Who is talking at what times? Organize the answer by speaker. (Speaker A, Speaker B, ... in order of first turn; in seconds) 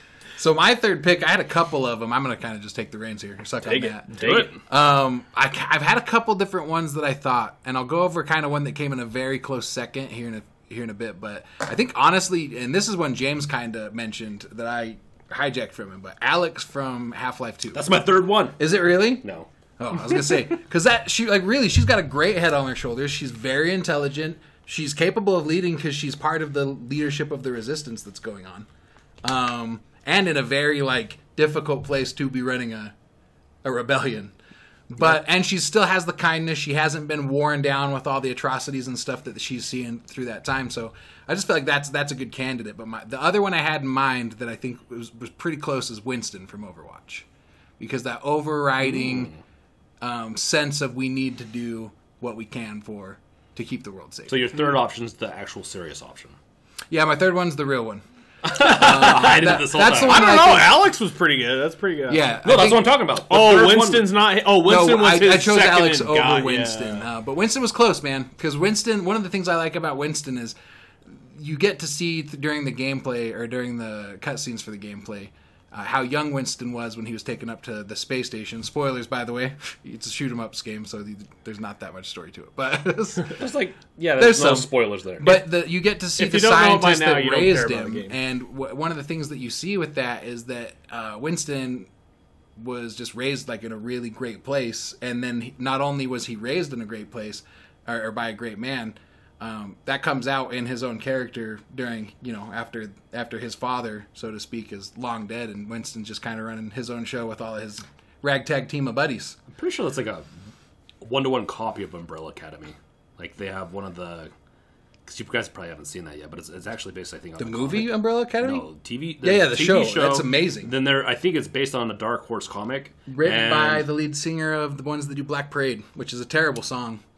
Speaker A: 0.4-17.9, 18.6-19.2, 19.8-28.7, 29.2-32.9, 33.6-34.3, 34.9-47.2, 47.8-49.3, 50.0-54.6, 56.9-60.8, 62.1-63.0, 64.6-70.5, 71.1-83.4, 84.2-91.9, 92.6-109.4, 117.4-118.6, 119.2-120.7, 123.1-127.0
Speaker B: 3.6-4.5, 59.9-62.3, 63.3-67.0, 86.2-88.1
Speaker C: 4.2-4.5, 17.7-18.6, 19.2-19.5, 54.3-56.4, 58.4-60.3, 62.4-64.1, 83.3-85.4, 109.5-110.3, 111.0-114.3, 115.0-123.9